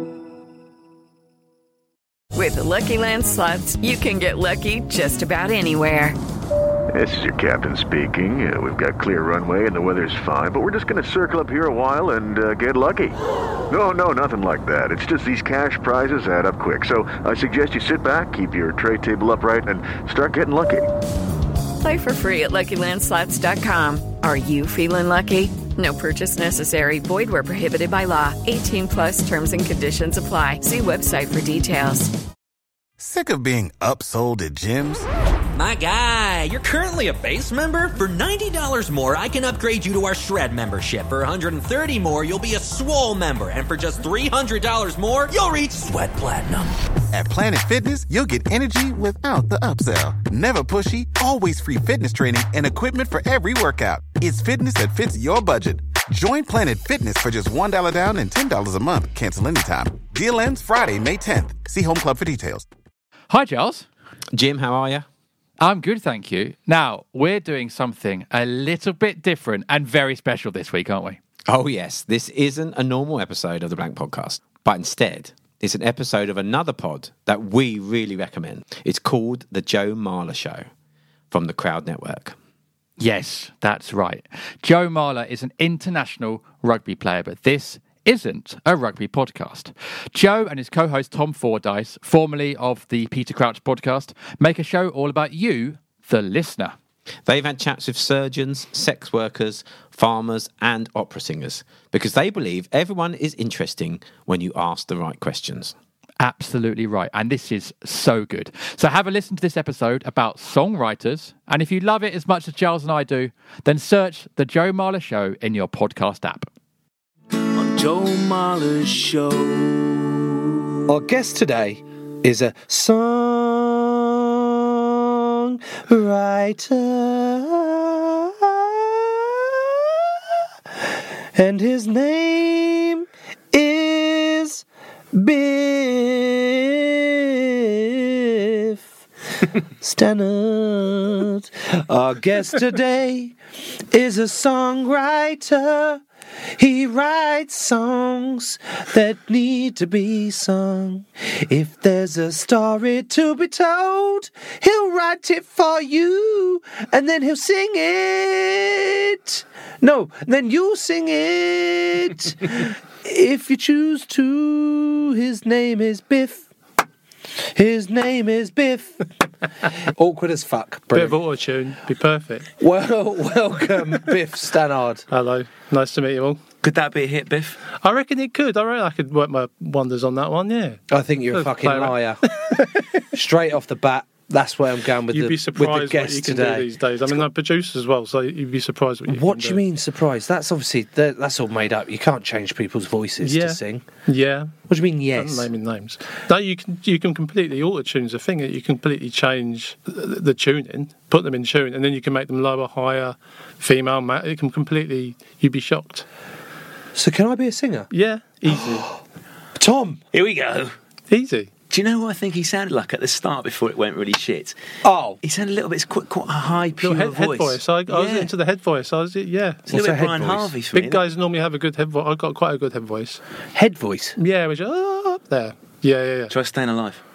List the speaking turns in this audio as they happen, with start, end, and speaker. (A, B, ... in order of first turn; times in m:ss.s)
0:02.3-0:06.2 A
0:06.9-0:13.2 B
0:13.7-0:20.9 B
0:21.8-0:32.1 A
0:33.0-0:35.1 C
0:35.5-0:46.8 D
0:47.1-1:02.6 C
1:03.3-1:03.8 E
1:04.3-1:05.0 F
1:05.6-1:11.2 E
1:11.5-1:20.7 F
1:21.3-1:22.4 F
1:23.0-1:36.7 E
1:37.2-1:45.8 F
1:46.2-1:56.5 E
1:57.5-2:00.4 G
2:00.9-2:10.2 H
2:10.8-2:18.8 H
2:19.8-2:23.4 H
2:23.9-2:26.0 H
2:26.5-2:46.4 H
2:47.4-2:49.1 H
2:49.6-2:51.2 H
2:50.9-2:52.5 I
2:52.6-2:55.0 H
2:55.1-2:56.4 I
2:56.6-2:57.6 G
2:57.8-3:02.7 I
3:00.9-3:02.3 H
3:03.0-3:07.2 H
3:05.1-3:09.6 I
3:09.1-3:13.9 H
3:13.2-3:14.6 I
3:14.7-3:15.5 H
3:15.1-3:26.0 I
3:26.9-3:27.9 H
3:27.9-3:28.9 I
3:28.5-3:29.0 H
3:29.6-3:30.0 H
3:30.1-3:30.7 G
3:31.1-3:31.5 I
3:31.7-3:34.6 G
3:34.8-3:35.2 H
3:35.2-3:38.3 G
3:36.8-3:39.7 I
3:39.7-3:40.5 H
3:39.7-3:41.0 G
3:40.7-3:43.2 I
3:43.5-3:44.2 H
3:44.2-3:46.3 I
3:46.3-3:47.0 G